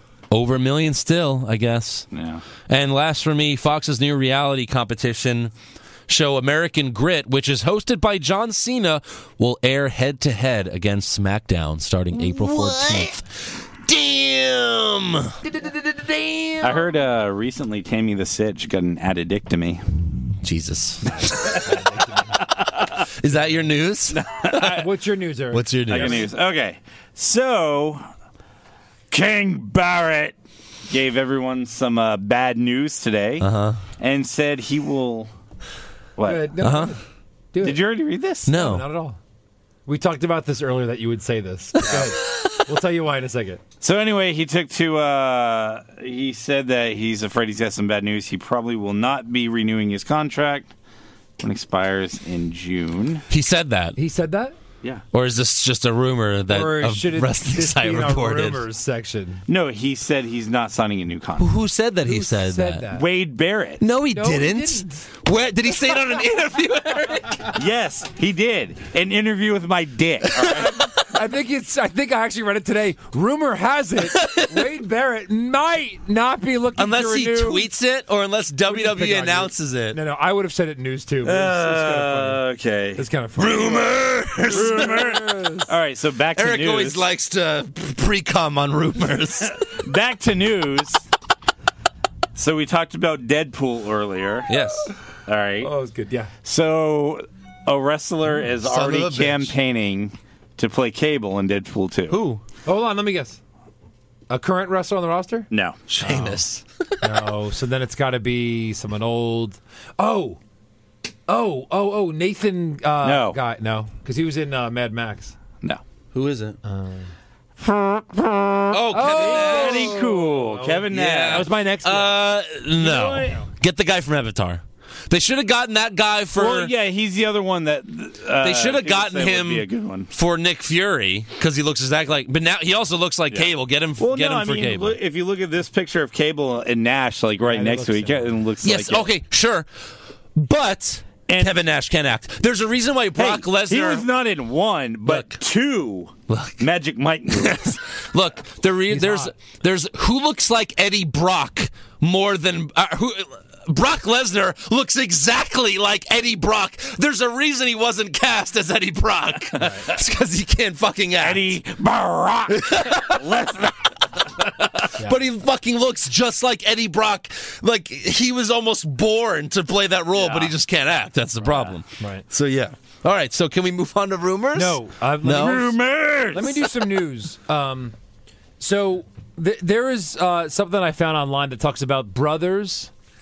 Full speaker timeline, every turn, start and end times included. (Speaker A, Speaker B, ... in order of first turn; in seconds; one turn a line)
Speaker A: 0.3-2.1
Speaker B: 2.1-2.4
Speaker A: 2.7-5.5
Speaker A: 6.1-15.4
Speaker C: 12.4-13.1
Speaker C: 15.4-16.8
Speaker B: 16.6-19.8
Speaker A: 20.4-21.7
Speaker C: 21.0-22.4
Speaker B: 22.4-22.9
Speaker A: 23.1-24.2
Speaker B: 24.1-24.9
Speaker C: 24.6-26.3
Speaker A: 25.5-26.2
Speaker B: 25.9-28.1
Speaker B: 29.1-30.4
Speaker B: 30.9-33.5
Speaker A: 33.4-33.8
Speaker B: 34.0-35.3
Speaker B: 36.2-36.5
Speaker C: 36.2-37.0
Speaker A: 36.6-37.0
Speaker C: 37.5-37.8
Speaker B: 37.6-38.5
Speaker A: 38.5-38.9
Speaker C: 38.5-39.2
Speaker C: 39.9-43.6
Speaker B: 41.8-42.1
Speaker B: 43.8-50.7
Speaker B: 51.4-53.2
Speaker A: 53.3-54.0
Speaker C: 54.0-54.6
Speaker A: 55.1-58.6
Speaker C: 56.5-59.4
Speaker B: 59.5-61.5
Speaker A: 61.4-62.9
Speaker C: 62.0-63.0
Speaker B: 62.9-63.8
Speaker A: 63.8-67.5
Speaker C: 64.1-65.0
Speaker B: 67.5-70.8
Speaker C: 70.5-77.7
Speaker A: 74.0-74.6
Speaker A: 76.8-80.0
Speaker C: 78.7-82.4
Speaker B: 81.2-83.0
Speaker C: 83.0-83.9
Speaker A: 83.4-85.1
Speaker C: 84.4-85.7
Speaker B: 84.5-87.0
Speaker A: 86.3-89.6
Speaker B: 89.5-91.0
Speaker B: 92.3-94.5
Speaker A: 94.5-94.9
Speaker B: 95.2-95.7
Speaker C: 95.6-96.3
Speaker B: 96.4-102.2
Speaker A: 98.5-99.5
Speaker A: 102.1-102.4
Speaker C: 102.6-103.4
Speaker C: 104.3-105.5
Speaker B: 105.5-105.8
Speaker A: 105.9-107.2
Speaker C: 106.0-106.4
Speaker C: 107.0-110.4
Speaker C: 111.3-115.3
Speaker B: 113.0-113.4
Speaker A: 116.1-116.6
Speaker C: 116.6-117.1
Speaker A: 118.7-120.0
Speaker C: 118.9-122.2
Speaker B: 119.0-121.5
Speaker A: 120.9-126.7
Speaker B: 122.8-123.4
Speaker C: 123.2-123.4
Speaker B: 126.3-130.1
Speaker A: 128.4-135.0
Speaker B: 133.3-139.1
Speaker C: 137.4-138.4
Speaker A: 138.6-139.7
Speaker A: 140.3-144.1
Speaker B: 141.3-141.5
Speaker B: 143.2-147.8
Speaker A: 145.1-145.4
Speaker A: 146.3-146.7
Speaker A: 147.3-161.6
Speaker C: 148.9-149.3
Speaker C: 159.6-159.9
Speaker B: 161.2-163.9
Speaker A: 162.5-163.2
Speaker A: 164.4-175.8
Speaker B: 170.1-170.5
Speaker C: 172.0-172.2
Speaker C: 174.5-177.9
Speaker B: 175.4-176.7
Speaker C: 178.6-182.9